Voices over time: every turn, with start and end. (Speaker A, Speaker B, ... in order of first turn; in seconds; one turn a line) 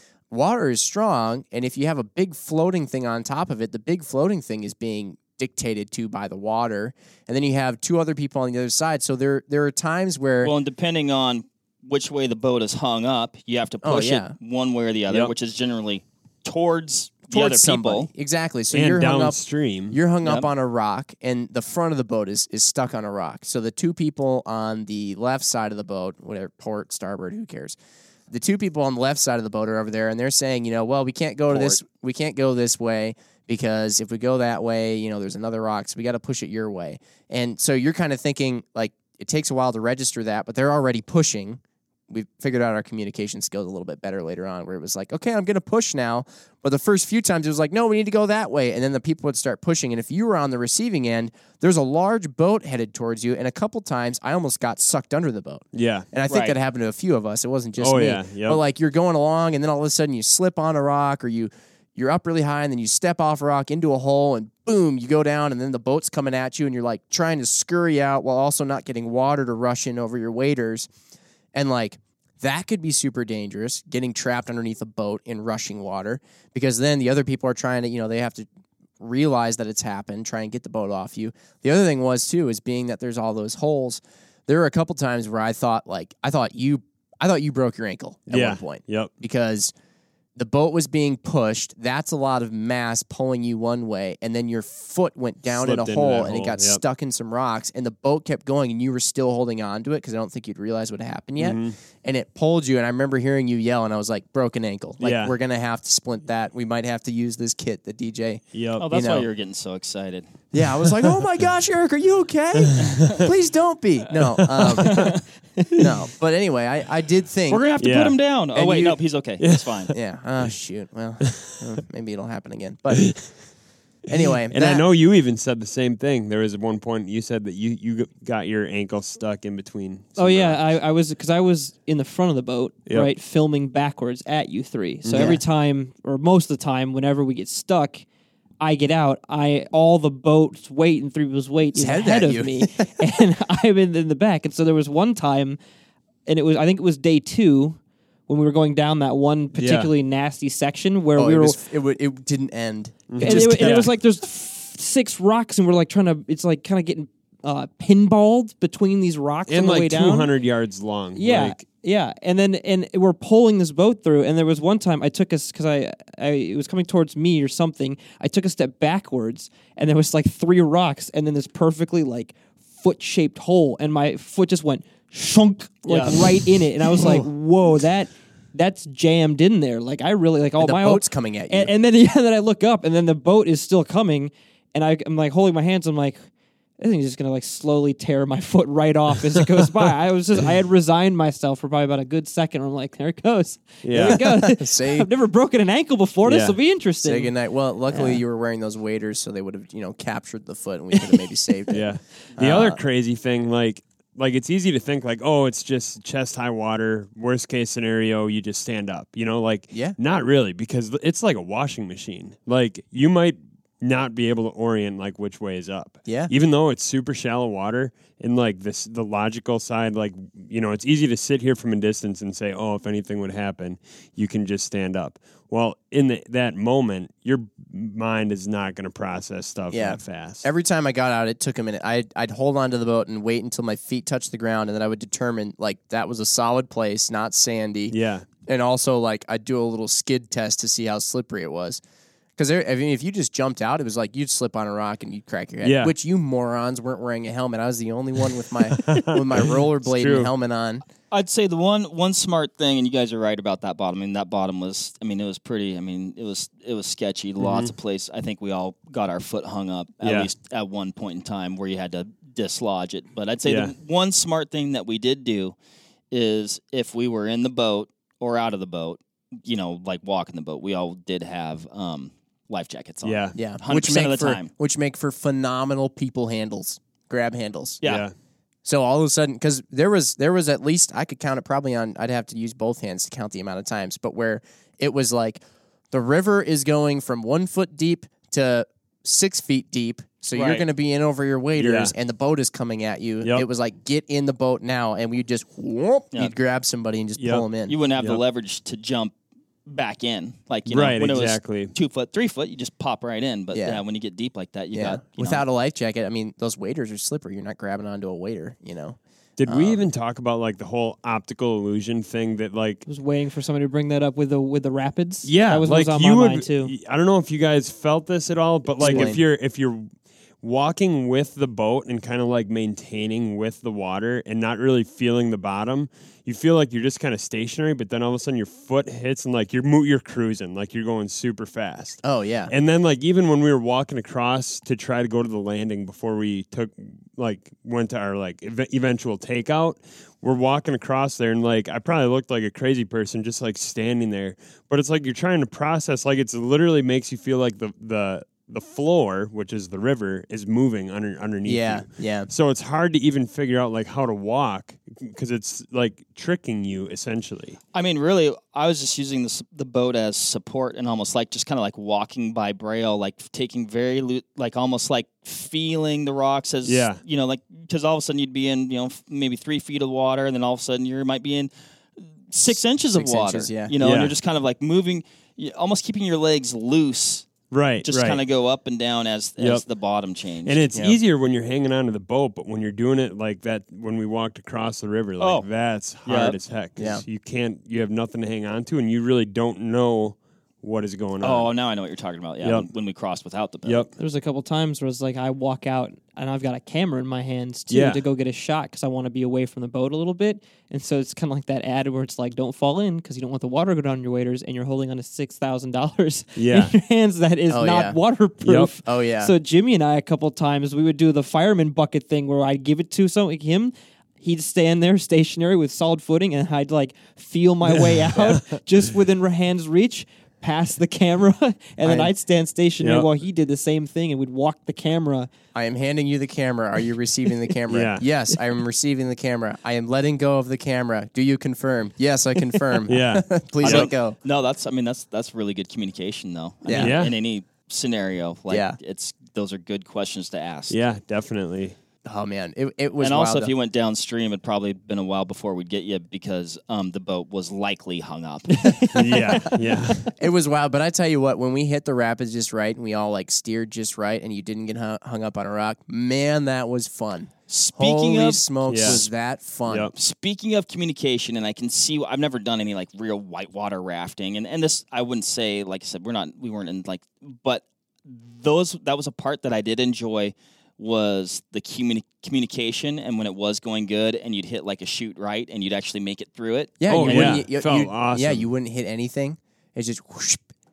Speaker A: 0.3-10.5
Speaker B: 10.4-18.1
Speaker A: 13.8-14.3
Speaker A: 17.3-19.4
Speaker C: 18.7-20.0
Speaker A: 19.9-27.8
Speaker B: 20.2-20.5
Speaker A: 28.3-70.9
Speaker B: 31.5-31.8
Speaker C: 55.7-56.1
Speaker B: 56.3-56.6
Speaker C: 57.8-58.6
Speaker A: 71.5-78.5
Speaker A: 79.0-89.7
Speaker C: 88.3-89.1
Speaker A: 90.4-109.3
Speaker C: 95.5-96.8
Speaker C: 101.4-101.8
Speaker C: 105.0-105.3
Speaker C: 108.5-108.9
Speaker B: 108.8-110.3
Speaker A: 110.5-115.2
Speaker C: 110.8-111.2
Speaker C: 112.6-113.3
Speaker C: 114.2-115.1
Speaker B: 114.8-115.2
Speaker D: 115.6-115.9
Speaker A: 115.7-117.6
Speaker B: 117.5-119.9
Speaker C: 117.8-118.2
Speaker A: 118.5-119.0
Speaker C: 119.4-119.9
Speaker A: 119.9-123.2
Speaker C: 121.2-121.6
Speaker C: 122.9-123.3
Speaker A: 124.1-124.9
Speaker C: 124.1-130.6
Speaker D: 130.2-138.0
Speaker C: 135.0-135.4
Speaker A: 135.1-135.4
Speaker D: 138.6-145.6
Speaker A: 141.7-143.1
Speaker D: 146.3-151.6
Speaker C: 149.6-149.9
Speaker A: 151.2-153.9
Speaker C: 153.1-153.9
Speaker D: 153.2-160.3
Speaker C: 159.5-161.6
Speaker D: 161.2-186.2
Speaker A: 175.9-176.2
Speaker A: 176.9-177.3
Speaker A: 180.6-181.7
Speaker D: 186.8-197.3
Speaker C: 193.8-194.2
Speaker A: 193.9-195.1
Speaker C: 196.2-196.6
Speaker A: 197.0-202.8
Speaker D: 197.9-198.2
Speaker C: 201.7-230.5
Speaker A: 209.7-210.0
Speaker A: 216.1-216.3
Speaker A: 229.7-241.8
Speaker C: 237.9-238.3
Speaker A: 242.4-250.8
Speaker C: 245.6-245.9
Speaker C: 248.7-250.3
Speaker B: 251.1-265.6
Speaker C: 257.4-257.7
Speaker C: 260.0-260.3
Speaker C: 263.5-263.7
Speaker B: 266.1-274.5
Speaker C: 273.0-273.4
Speaker A: 273.4-277.8
Speaker C: 277.8-278.1
Speaker A: 278.6-297.8
Speaker B: 290.3-290.7
Speaker C: 291.6-291.9
Speaker C: 297.2-297.5
Speaker B: 297.7-299.1
Speaker B: 299.7-305.4
Speaker C: 300.7-301.7
Speaker A: 303.5-303.8
Speaker A: 304.7-309.9
Speaker C: 309.4-312.9
Speaker D: 312.9-316.7
Speaker C: 315.2-319.9
Speaker A: 318.8-319.2
Speaker D: 318.8-319.1
Speaker C: 320.4-357.6
Speaker A: 332.0-332.5
Speaker A: 351.4-352.3
Speaker B: 357.7-377.3
Speaker C: 366.6-367.0
Speaker A: 372.9-373.8
Speaker C: 373.8-374.1
Speaker C: 377.5-378.2
Speaker B: 377.8-380.6
Speaker C: 379.4-379.6
Speaker C: 380.4-391.5
Speaker B: 385.2-385.5
Speaker B: 386.1-386.4
Speaker A: 386.8-387.0
Speaker B: 391.2-393.9
Speaker C: 392.4-392.7
Speaker C: 393.6-393.9
Speaker D: 394.0-425.3
Speaker C: 397.7-398.0
Speaker C: 406.4-406.7
Speaker A: 407.5-408.0
Speaker C: 408.4-408.7
Speaker A: 408.8-409.3
Speaker C: 417.7-418.6
Speaker A: 421.8-422.1
Speaker C: 422.8-423.1
Speaker A: 425.6-434.2
Speaker C: 427.7-428.1
Speaker C: 432.9-433.9
Speaker B: 433.6-440.8
Speaker A: 436.6-437.0
Speaker C: 436.8-437.1
Speaker A: 438.5-438.8
Speaker C: 440.7-441.8
Speaker A: 442.1-443.5
Speaker B: 443.0-448.9
Speaker D: 448.5-450.1
Speaker C: 448.9-450.1
Speaker A: 450.1-459.9
Speaker B: 457.5-459.1
Speaker C: 458.7-459.0
Speaker C: 459.7-459.9
Speaker B: 459.9-477.4
Speaker A: 476.8-480.4
Speaker C: 476.9-478.5